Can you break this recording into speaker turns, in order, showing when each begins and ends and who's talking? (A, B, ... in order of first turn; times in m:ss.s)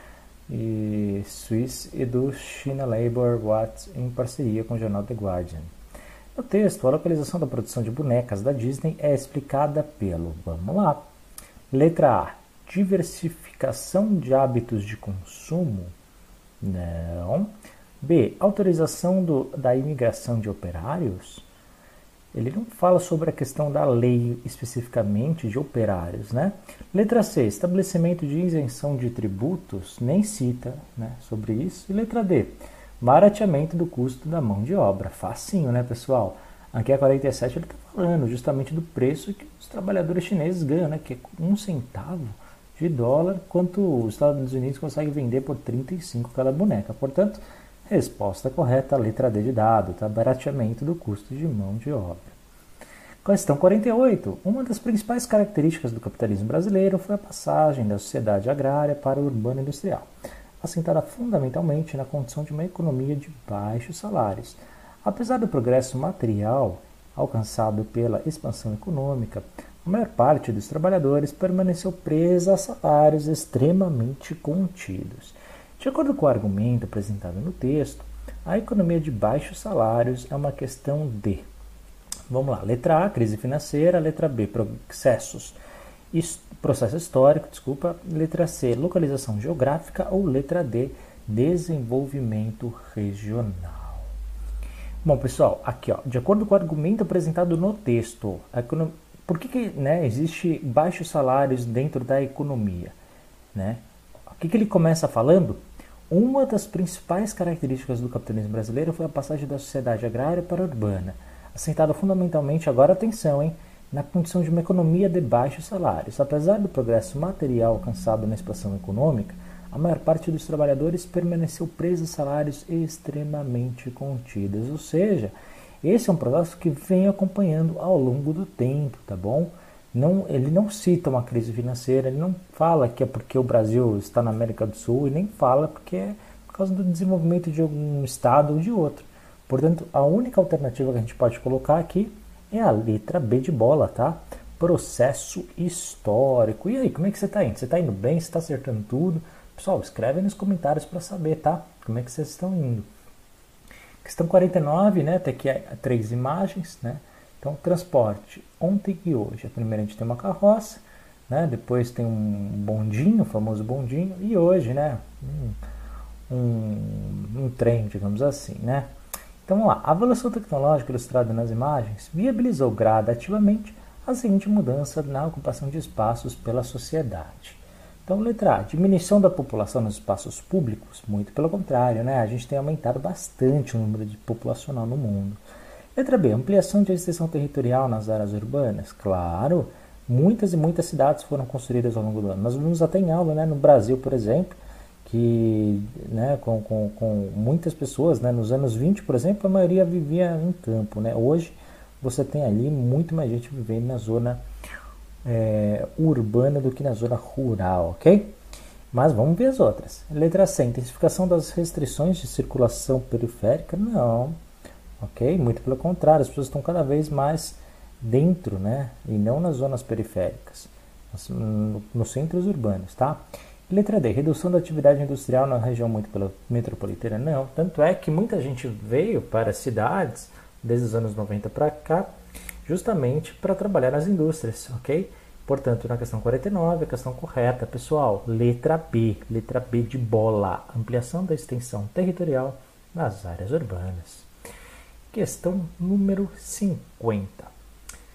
0:00.5-0:05.7 A
0:06.3-0:11.0 A
0:11.7-0:15.9 A
0:16.6-0:21.4 A
0:22.3-0:52.3 A
0:53.2-1:00.1 A
1:00.6-1:21.4 A
1:22.3-1:25.6 A
1:26.1-1:34.1 A
1:35.0-1:42.9 A
1:43.5-2:32.9 A
2:34.0-2:45.6 A
2:46.3-2:48.9 A
2:49.4-3:05.4 A
3:06.0-3:24.4 A
3:25.2-3:28.3 A
3:28.9-3:34.4 A
3:35.0-3:52.1 A
3:52.6-4:04.3 A
4:05.1-4:07.5 A